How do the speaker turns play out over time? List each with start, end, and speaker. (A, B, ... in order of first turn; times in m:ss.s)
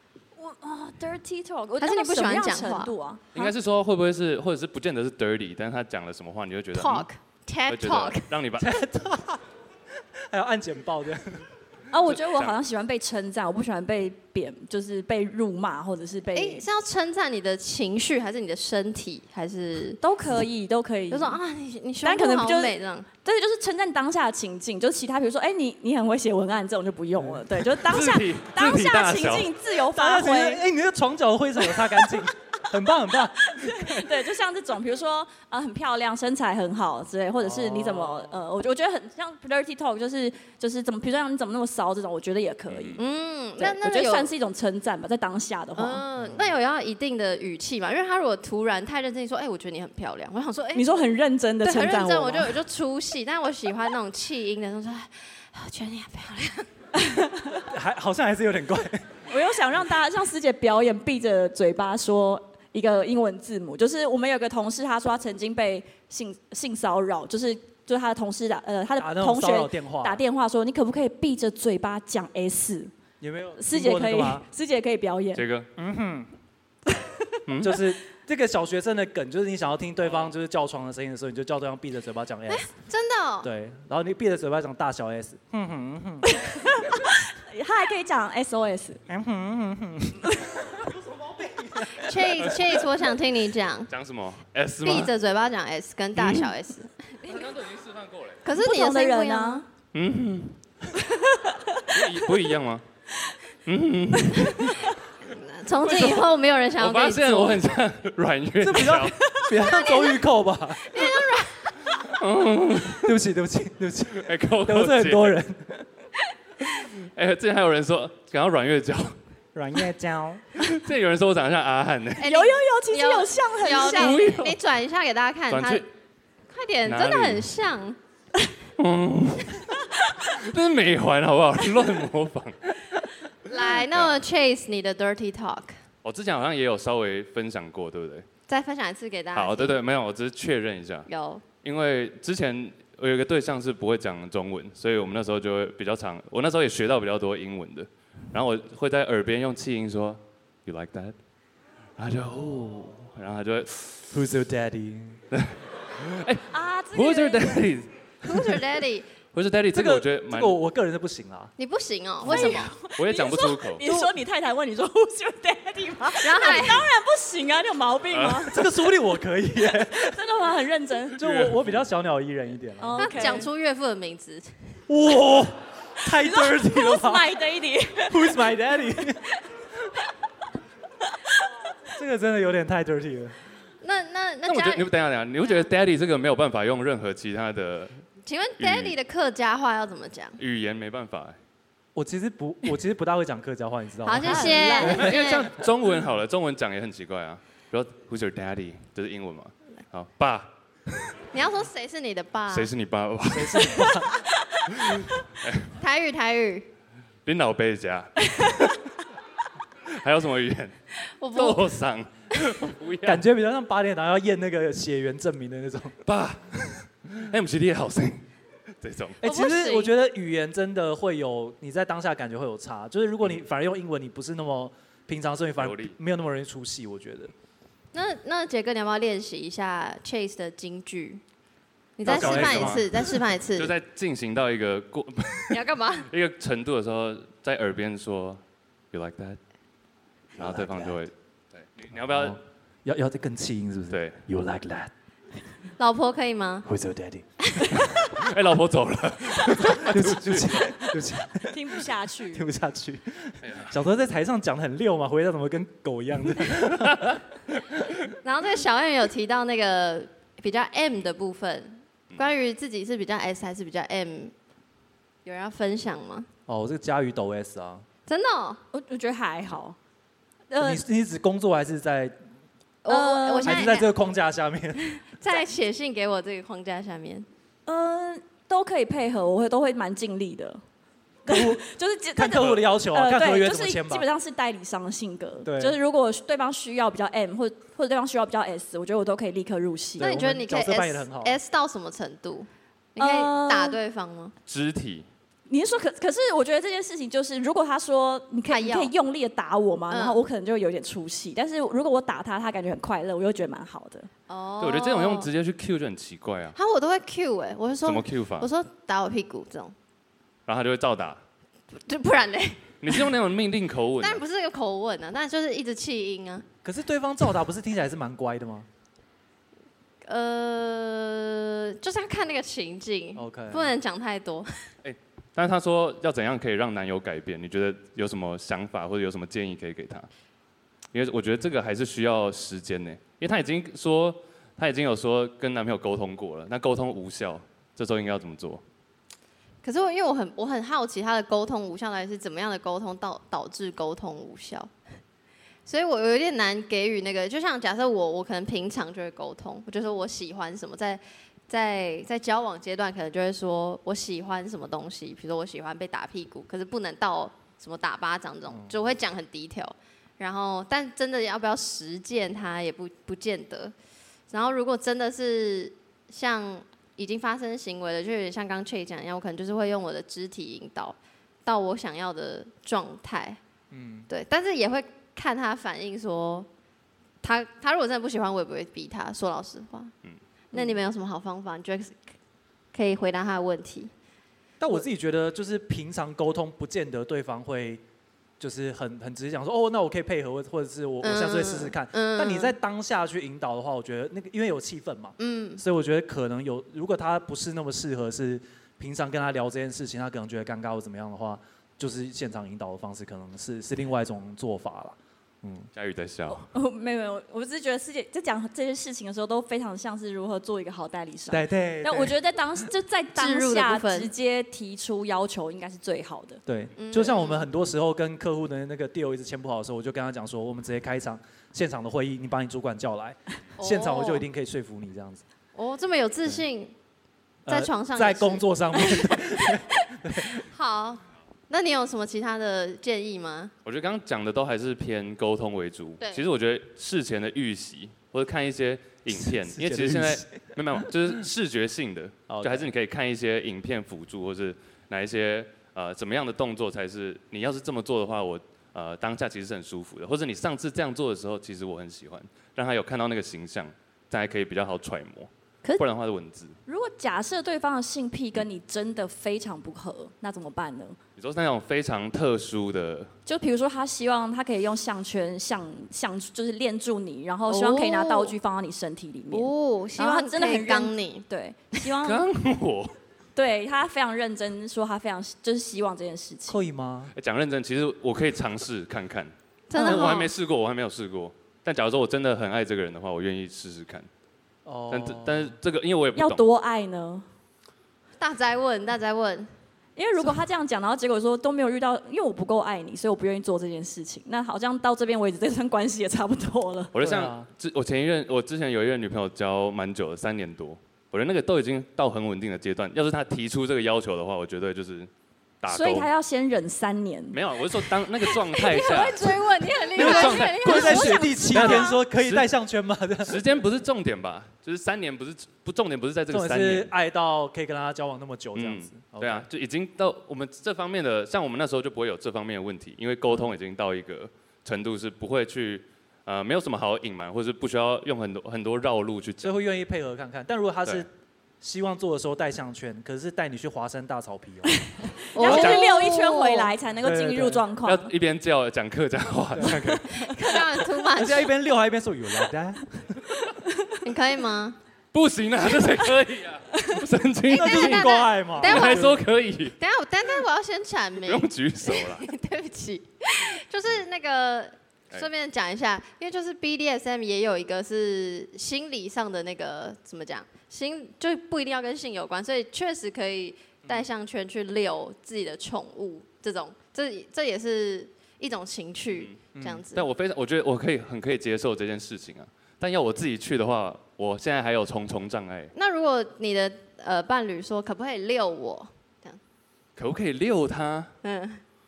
0:00.4-0:03.5 A
0:01.8-0:02.9 B
0:03.4-0:07.1 C
0:06.8-0:08.3 B
0:07.7-0:08.8 C
0:08.6-0:09.4 D
0:10.3-0:11.5 D
0:11.9-0:16.6 A
0:12.1-0:12.6 C
0:16.3-0:20.0 B
0:20.0-0:21.4 A
0:21.1-0:23.1 B
0:22.0-0:30.7 A
0:27.2-0:27.5 D
0:27.8-0:29.6 C
0:29.9-0:34.1 D
0:31.7-0:32.2 A
0:33.4-0:43.0 A
0:37.4-0:38.4 D
0:42.7-0:43.0 C
0:43.0-0:44.3 B
0:43.6-0:46.0 A
0:45.8-0:50.9 B
0:50.7-0:52.5 A
0:51.6-0:56.7 B
0:57.0-0:57.6 A
0:57.6-0:59.1 D
0:59.3-1:12.9 A
1:09.0-1:10.2 D
1:13.2-1:14.5 D
1:13.6-1:15.4 A
1:15.3-1:15.7 C
1:15.8-1:16.3 D
1:17.5-1:17.9 C
1:17.6-1:22.7 D
1:22.5-1:23.5 B
1:23.4-1:26.3 D
1:26.3-1:29.0 A
1:29.1-1:32.3 D
1:30.3-1:30.6 A
1:32.0-1:33.9 B
1:33.9-1:35.1 C
1:34.8-1:37.5 B
1:36.2-1:36.5 C
1:37.3-1:38.4 C
1:38.4-1:39.6 B
1:38.5-1:39.7 A
1:39.9-1:40.6 C
1:41.0-1:42.0 A
1:41.9-1:42.8 C
1:43.6-1:44.9 C
1:44.3-1:44.7 A
1:45.3-1:47.7 B
1:45.8-1:49.1 C
1:48.6-1:51.1 D
1:49.2-1:49.5 A
1:49.6-1:50.2 B
1:50.8-1:51.8 B
1:52.0-1:53.2 C
1:52.9-1:55.9 D
1:54.2-1:55.4 C
1:56.6-1:59.2 C
1:59.6-2:00.5 D
2:00.6-2:02.3 C
2:02.2-2:05.9 B
2:02.2-2:04.3 A
2:03.8-2:04.6 C
2:05.5-2:05.8 C
2:06.5-2:08.0 B
2:06.8-2:07.5 C
2:08.8-2:14.2 C
2:13.5-2:15.8 B
2:16.0-2:18.2 C
2:18.5-2:19.8 B
2:19.3-2:21.1 C
2:21.1-2:21.4 B
2:21.6-2:31.2 C
2:32.0-2:34.1 C
2:34.1-2:35.2 D
2:35.3-2:38.6 C
2:36.5-2:37.6 A
2:38.2-2:39.1 B
2:39.3-2:40.6 C
2:39.7-2:41.5 D
2:41.6-2:42.7 B
2:42.2-2:48.6 A
2:42.3-2:43.8 C
2:43.8-2:44.1 D
2:46.2-2:46.9 B
2:48.1-2:48.5 C
2:48.5-2:50.2 D
2:49.9-2:51.2 A
2:51.2-2:53.2 D
2:51.2-2:51.7 C
2:52.8-2:53.5 A
2:53.0-2:54.5 B
2:54.9-2:57.3 D
2:56.1-2:58.4 A
2:58.1-2:59.3 D
3:01.1-3:01.4 A
3:01.9-3:03.4 D
3:03.8-3:04.9 B
3:04.4-3:08.0 C
3:08.2-3:10.4 B
3:08.6-3:09.0 C
3:10.4-3:11.4 C
3:12.0-3:15.2 D
3:14.0-3:15.5 B
3:14.2-3:15.2 A
3:14.8-3:20.5 C
3:21.3-3:22.7 B
3:22.5-3:24.0 C
3:23.3-3:24.3 D
3:24.7-3:25.8 C
3:25.8-3:26.7 B
3:27.2-3:28.8 C
3:29.9-3:30.8 C
3:31.2-3:31.8 B
3:31.3-3:33.2 C
3:33.1-3:36.0 D
3:36.1-3:38.2 C
3:38.8-3:39.2 C
3:39.2-3:47.3 D
3:39.2-3:39.9 B
3:45.6-3:46.0 C
3:47.9-3:51.2 B
3:52.0-3:53.7 B
3:52.0-3:52.9 D
3:52.0-3:58.4 C
3:55.5-3:56.1 B
3:58.9-3:59.4 C
4:00.4-4:02.4 C
4:00.4-4:01.0 D
4:02.1-4:04.9 D
4:03.9-4:04.2 C
4:05.8-4:06.7 B
4:06.6-4:07.3 D
4:07.8-4:10.9 C
4:09.7-4:17.2 D
4:11.5-4:12.5 A
4:16.9-4:17.2 C
4:18.2-4:24.3 B
4:25.2-4:26.3 B
4:26.5-4:27.8 D
4:28.1-4:28.6 B
4:28.7-4:29.8 A
4:30.5-4:30.8 A
4:30.6-4:32.2 D
4:32.8-4:33.9 B
4:32.9-4:33.8 A
4:33.4-4:35.0 D
4:35.0-4:37.3 B
4:37.7-4:40.6 A
4:41.2-4:41.6 D
4:41.3-4:50.1 A
4:42.2-4:44.1 D
4:45.4-4:45.8 D
4:50.0-4:51.4 D
4:50.0-4:54.4 B
4:53.0-4:53.8 A
4:54.5-4:55.1 C
4:55.5-5:04.1 A
4:58.5-4:58.9 B
4:59.9-5:00.2 B
5:04.3-5:05.3 B
5:04.6-5:06.6 C
5:06.6-5:09.7 B
5:07.8-5:08.5 C
5:10.5-5:11.2 C
5:11.8-5:13.1 B
5:12.8-5:14.2 C
5:14.0-5:16.5 B
5:16.6-5:18.7 D
5:20.0-5:24.5 B
5:23.2-5:23.7 D
5:24.8-5:30.1 C
5:30.9-5:38.6 C
5:39.6-5:44.7 B
5:45.7-6:03.7 B
5:58.5-5:58.8 D
6:04.3-6:13.4 B
6:13.7-6:14.1 D
6:14.1-6:16.5 B
6:17.2-6:19.9 B
6:20.5-6:22.0 B
6:22.7-6:23.9 B
6:24.6-6:27.8 D
6:28.4-6:45.7 D
6:31.0-6:32.5 B
6:35.2-6:35.6 B
6:45.8-6:46.4 C
6:46.3-6:56.4 A
6:51.3-6:52.2 D
6:53.2-6:54.1 B
6:56.5-7:05.2 D
6:56.8-6:57.4 B
7:03.6-7:04.2 B
7:05.6-7:06.7 B
7:07.5-7:10.4 D
7:07.5-7:09.7 B
7:10.3-7:13.5 B
7:13.6-7:36.6 C
7:19.1-7:20.3 D
7:22.3-7:22.7 D
7:36.7-7:41.0 A
7:41.2-7:43.1 C
7:43.3-7:52.3 A
7:47.5-7:48.4 B
7:49.3-7:51.3 B
7:52.0-7:53.0 C
7:53.4-7:56.6 A
7:56.5-7:57.1 D
7:57.2-8:04.1 C
7:59.7-8:00.3 B
7:59.8-8:00.2 A
8:04.7-8:05.6 D
8:04.9-8:06.4 C
8:06.2-8:07.3 A
8:08.2-8:09.5 B
8:10.0-8:16.9 A
8:16.9-8:25.1 C
8:17.0-8:17.5 D
8:25.6-8:26.1 C
8:25.7-8:29.0 A
8:27.3-8:32.5 C
8:28.5-8:31.8 B
8:30.0-8:33.4 D
8:30.0-8:32.0 A
8:33.2-8:36.9 C
8:36.3-8:39.5 D
8:38.6-8:49.6 C
8:49.4-8:51.1 D
8:51.6-8:54.9 D
8:54.7-8:58.1 A
8:55.4-8:56.7 B
8:55.4-8:55.8 C
8:57.0-8:57.6 D
8:57.8-9:00.6 C
8:59.5-9:00.0 D
9:00.1-9:01.5 B
9:01.2-9:03.3 D
9:04.0-9:04.8 B
9:05.1-9:09.8 C
9:07.5-9:09.2 B
9:07.5-9:09.2 D
9:09.8-9:30.1 B
9:11.2-9:12.3 C
9:29.1-9:29.4 C
9:29.5-9:29.8 D
9:29.9-9:35.7 C
9:35.8-9:39.4 B
9:40.0-9:41.1 C
9:41.2-9:41.6 B